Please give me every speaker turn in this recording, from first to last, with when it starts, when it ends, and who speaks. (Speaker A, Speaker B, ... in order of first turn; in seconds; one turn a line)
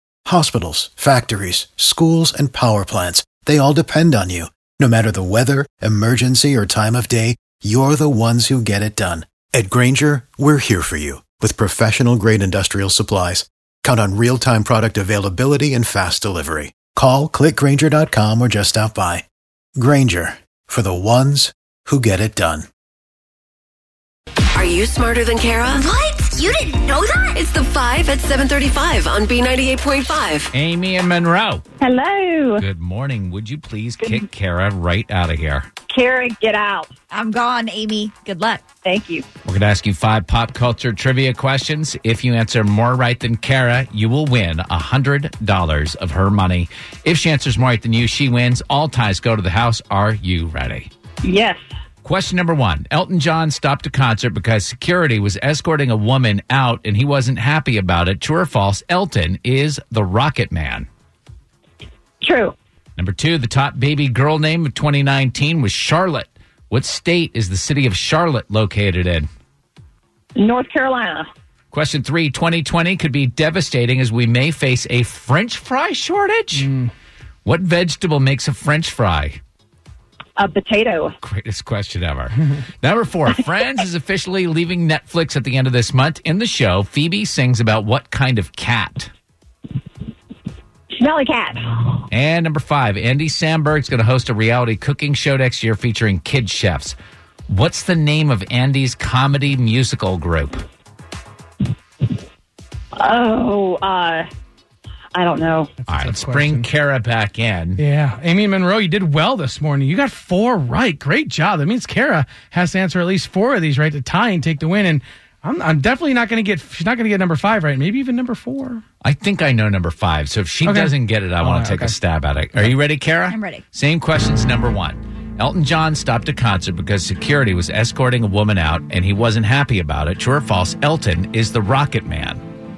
Speaker A: 0.2-19.2
Speaker A: 19.8-22.7
Speaker B: 24.5-30.5
Speaker C: 26.4-27.3
Speaker D: 30.5-31.6
Speaker E: 31.8-32.6
Speaker D: 32.5-35.7
Speaker E: 35.9-36.9
Speaker C: 37.1-38.6
Speaker E: 38.8-39.2
Speaker D: 39.4-50.9
Speaker E: 51.2-51.6
Speaker D: 52.0-60.9
Speaker E: 62.2-62.5
Speaker D: 63.0-69.3
Speaker E: 70.3-71.3
Speaker D: 71.7-76.7
Speaker F: 76.6-76.9
Speaker D: 77.4-79.4
Speaker E: 80.4-81.1
Speaker D: 81.2-89.1
Speaker E: 90.9-92.0
Speaker D: 92.1-97.0
Speaker D: 97.5-100.6
Speaker E: 103.0-104.2
Speaker E: 105.1-105.7
Speaker D: 105.9-107.8
Speaker F: 106.0-106.7
Speaker F: 107.8-118.8
Speaker D: 119.0-132.4
Speaker F: 120.6-121.9
Speaker C: 123.3-123.6